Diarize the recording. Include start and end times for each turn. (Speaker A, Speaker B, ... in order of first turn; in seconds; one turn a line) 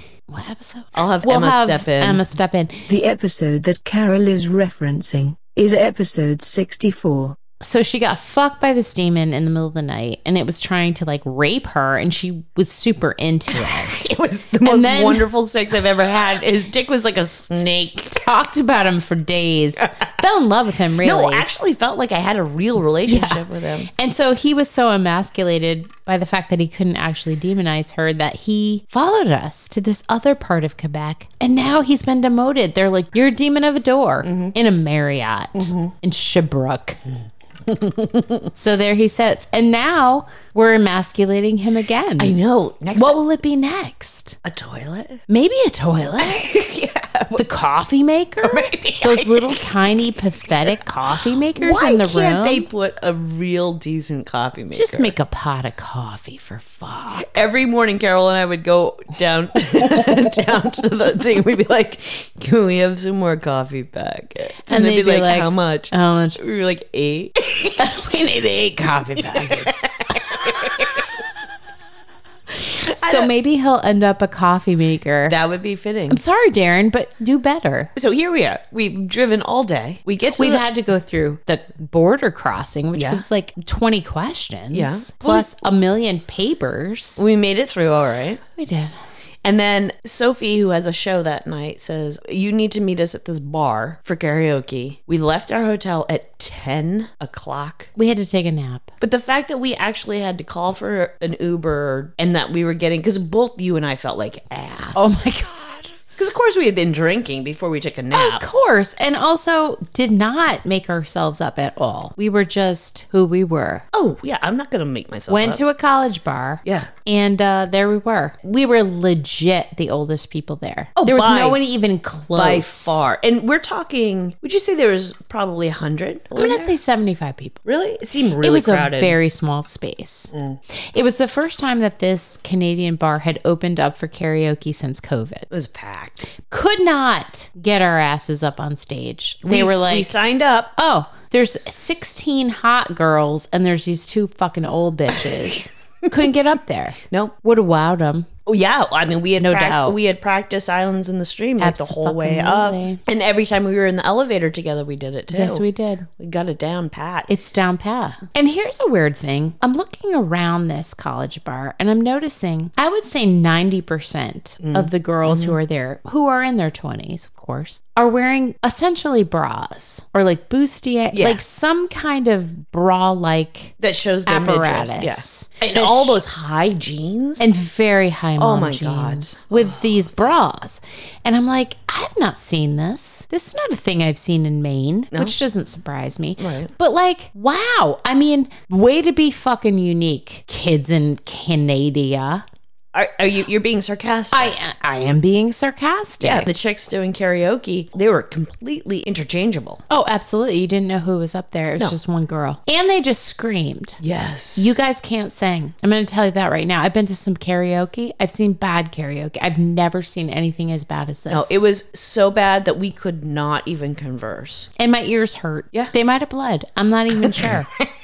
Speaker A: 0.3-2.9
Speaker B: 0.9-2.2
Speaker C: 2.9-7.3
Speaker A: 7.6-14.0
Speaker B: 13.5-18.2
Speaker A: 14.6-15.2
Speaker A: 18.1-21.5
Speaker B: 19.8-20.1
Speaker B: 21.0-23.9
Speaker A: 23.1-37.0
Speaker B: 34.2-34.5
Speaker B: 35.5-35.9
Speaker B: 37.7-38.5
Speaker A: 38.5-42.4
Speaker B: 42.2-43.2
Speaker A: 42.9-44.4
Speaker B: 44.4-45.2
Speaker A: 45.3-46.5
Speaker B: 46.2-47.4
Speaker A: 47.3-52.6
Speaker B: 48.4-50.1
Speaker B: 51.6-55.1
Speaker A: 54.7-57.4
Speaker B: 57.2-67.9
Speaker A: 64.7-66.4
Speaker A: 67.8-69.9
Speaker B: 69.3-71.1
Speaker A: 72.6-75.4
Speaker B: 73.0-73.3
Speaker B: 75.3-76.2
Speaker A: 76.1-77.9
Speaker B: 78.0-80.6
Speaker A: 80.4-87.2
Speaker B: 82.9-83.2
Speaker B: 84.7-85.5
Speaker B: 87.2-88.4
Speaker A: 88.6-89.0
Speaker B: 89.4-97.9
Speaker A: 98.0-98.9
Speaker B: 99.0-105.2
Speaker A: 104.9-105.9
Speaker B: 106.2-108.4
Speaker A: 108.1-113.9
Speaker B: 113.9-115.6
Speaker A: 115.3-123.0
Speaker B: 116.6-116.9
Speaker B: 121.0-121.6
Speaker B: 122.3-126.7
Speaker A: 126.3-127.6
Speaker B: 127.6-129.2
Speaker A: 128.4-135.5
Speaker B: 135.5-136.3
Speaker A: 136.5-140.2
Speaker B: 139.4-140.7
Speaker A: 140.8-148.3
Speaker B: 148.4-157.3
Speaker A: 149.4-150.0
Speaker A: 151.6-153.0
Speaker A: 155.3-156.1
Speaker A: 157.3-173.7
Speaker B: 164.6-165.6
Speaker B: 171.1-171.4
Speaker B: 173.8-177.4
Speaker A: 174.2-176.2
Speaker A: 177.4-192.4
Speaker B: 178.4-179.8
Speaker B: 186.4-186.7
Speaker B: 192.9-194.5
Speaker A: 194.3-196.5
Speaker B: 196.2-199.8
Speaker A: 199.9-204.0
Speaker B: 204.0-204.8
Speaker A: 204.6-211.6
Speaker B: 211.3-214.7
Speaker A: 214.8-217.7
Speaker B: 217.2-217.6